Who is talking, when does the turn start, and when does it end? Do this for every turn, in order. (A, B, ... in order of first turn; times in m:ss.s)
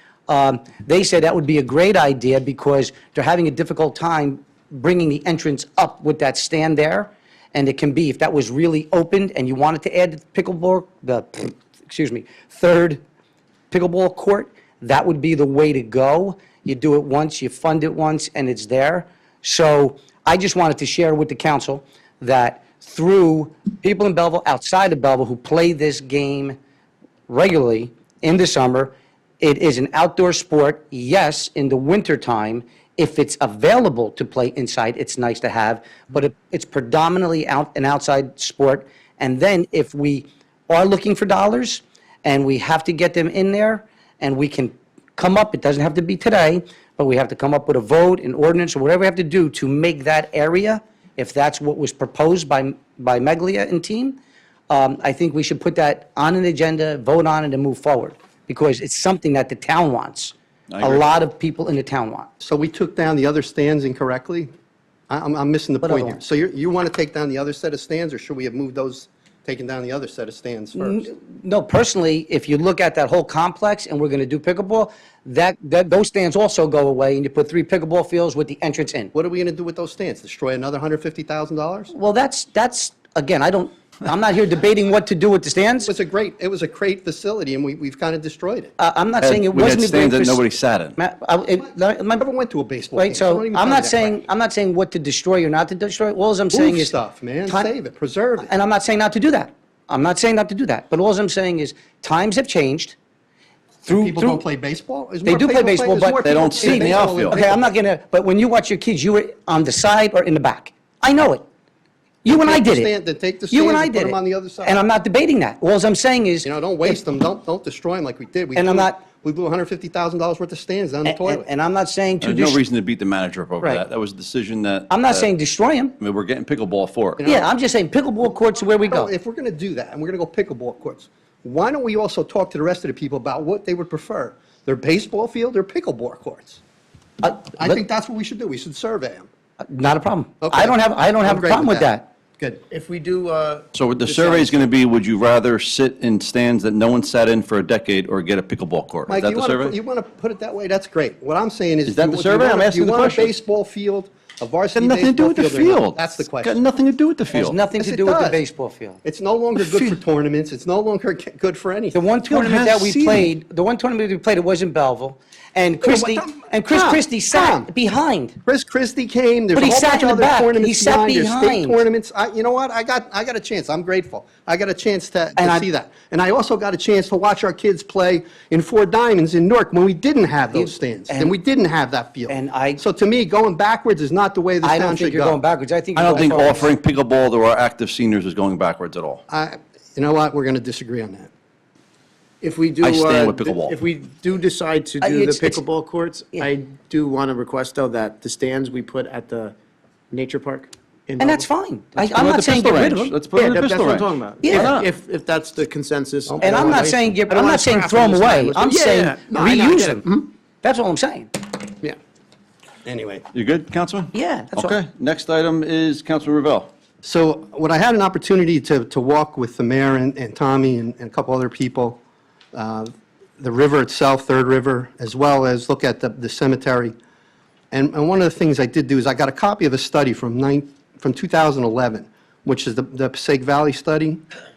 0:00.3-0:13.0 A
0:13.7-0:26.6 A
0:27.3-0:54.2 A
0:54.7-1:02.3 A
1:00.7-1:01.0 B
1:02.4-1:04.5 C
1:05.1-1:11.1 C
1:05.8-1:06.2 A
1:10.8-1:19.1 A
1:19.1-1:21.9 C
1:21.9-1:25.9 A
1:25.8-1:28.7 C
1:28.8-1:30.4 A
1:29.2-1:31.0 B
1:31.0-1:32.2 A
1:31.6-1:34.2 C
1:32.9-1:37.0 A
1:36.5-1:38.5 C
1:38.4-1:43.0 A
1:43.8-1:44.4 A
1:43.9-1:47.6 C
1:45.2-1:51.4 A
1:46.2-1:47.4 B
1:52.2-1:52.9 A
1:52.3-1:54.8 C
1:53.5-1:57.0 A
1:56.4-2:01.5 C
1:58.6-1:59.0 A
2:01.0-2:02.6 A
2:02.2-2:05.3 B
2:04.9-2:06.0 A
2:06.0-2:07.2 B
2:07.2-2:07.5 C
2:07.2-2:09.1 A
2:08.2-2:16.6 C
2:17.2-2:17.8 A
2:17.2-2:19.3 C
2:19.7-2:22.1 A
2:20.4-2:22.6 C
2:22.7-2:24.7 D
2:23.7-2:29.8 B
2:29.1-2:36.6 C
2:31.9-2:33.3 B
2:34.8-2:37.6 B
2:37.3-2:39.0 A
2:37.8-2:38.4 C
2:39.0-2:42.0 C
2:39.6-2:40.0 B
2:41.9-2:48.4 A
2:42.2-2:43.3 B
2:45.8-2:47.7 C
2:48.4-3:05.4 C
2:49.5-2:51.8 A
2:55.4-2:55.7 A
3:00.5-3:01.4 A
3:02.3-3:02.8 A
3:04.6-3:06.7 A
3:06.0-3:09.2 B
3:06.2-3:06.6 C
3:09.3-3:11.3 C
3:12.4-3:19.6 D
3:12.8-3:13.8 B
3:15.0-3:15.6 A
3:20.1-3:21.5 D
3:21.2-3:23.2 A
3:22.0-3:24.9 B
3:23.3-3:30.2 D
3:24.4-3:24.8 A
3:26.3-3:26.9 C
3:26.4-3:30.1 A
3:29.3-3:29.9 C
3:30.6-3:31.3 A
3:32.8-3:33.2 C
3:33.3-3:36.7 B
3:34.1-3:34.8 A
3:37.0-3:42.0 C
3:42.5-3:47.0 C
3:47.7-3:54.2 C